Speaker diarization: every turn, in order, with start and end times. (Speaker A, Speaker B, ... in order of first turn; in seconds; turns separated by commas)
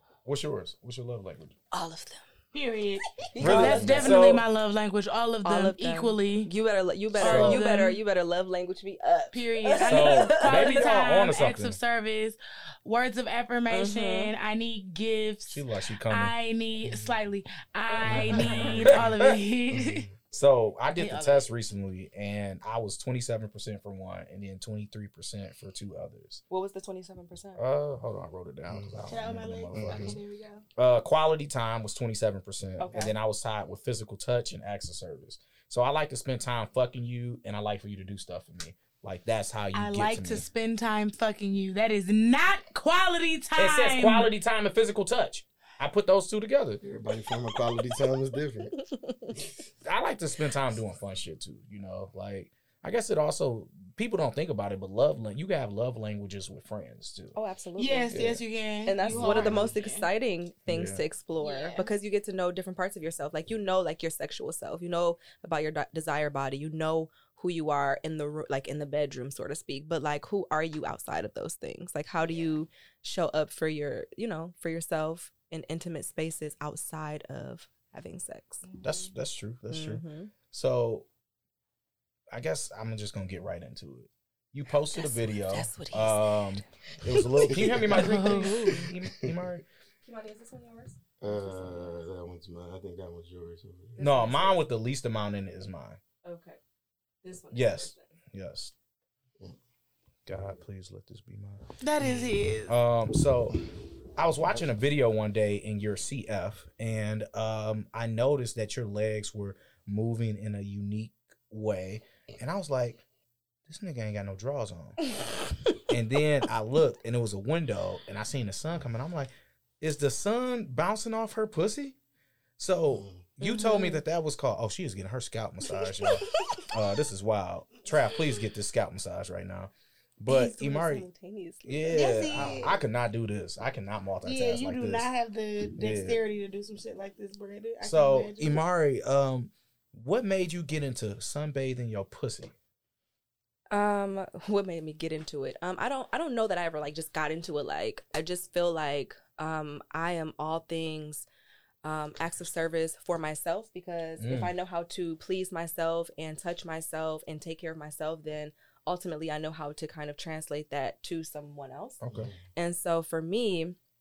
Speaker A: 0.2-1.6, Speaker B: 1.7-2.2, Speaker C: 2.5-6.5, Speaker B: 3.3-4.2, Speaker A: 3.4-4.5, Speaker B: 5.4-10.9, Speaker C: 7.2-8.0, Speaker A: 7.2-7.6, Speaker C: 9.3-20.1, Speaker A: 9.8-11.8, Speaker B: 13.7-14.3, Speaker A: 15.5-16.3, Speaker D: 16.9-17.1, Speaker D: 18.1-19.1, Speaker A: 18.1-19.4, Speaker D: 19.7-20.1, Speaker A: 20.3-26.4, Speaker C: 20.9-21.5, Speaker B: 26.5-27.6, Speaker A: 27.6-30.2, Speaker D: 28.7-29.1, Speaker C: 29.1-30.6, Speaker D: 29.7-30.2, Speaker A: 30.8-40.5, Speaker B: 32.8-33.1, Speaker C: 39.7-44.3, Speaker A: 43.6-46.8, Speaker D: 46.8-48.8, Speaker B: 48.8-49.4, Speaker A: 49.8-57.4, Speaker B: 57.4-58.3, Speaker C: 57.8-60.1, Speaker A: 58.1-58.4, Speaker B: 58.9-78.6, Speaker D: 59.1-59.7, Speaker A: 60.7-61.0, Speaker C: 61.4-61.9, Speaker C: 78.6-79.1, Speaker A: 78.8-81.1, Speaker B: 79.7-80.3, Speaker A: 82.3-89.6, Speaker B: 84.9-88.5, Speaker D: 87.4-88.2, Speaker C: 87.9-88.8, Speaker D: 89.0-89.5, Speaker B: 90.0-92.0, Speaker D: 91.2-94.0, Speaker B: 94.0-94.6, Speaker A: 94.0-96.0, Speaker B: 96.2-96.6, Speaker B: 97.2-98.0, Speaker A: 97.5-98.7, Speaker A: 100.3-101.6, Speaker C: 101.8-102.8, Speaker A: 102.7-103.6, Speaker A: 104.2-113.0, Speaker A: 113.7-115.1, Speaker A: 115.9-121.9, Speaker A: 122.6-131.1, Speaker D: 122.9-123.2, Speaker C: 123.4-124.0, Speaker B: 125.8-126.7, Speaker B: 130.3-132.6, Speaker A: 131.7-135.1, Speaker C: 131.9-132.8, Speaker C: 134.2-138.6, Speaker A: 135.8-136.2, Speaker A: 137.8-142.5, Speaker B: 143.7-151.3, Speaker B: 151.8-162.0, Speaker A: 154.2-154.5, Speaker A: 162.0-162.3, Speaker D: 162.1-162.4, Speaker B: 162.6-163.8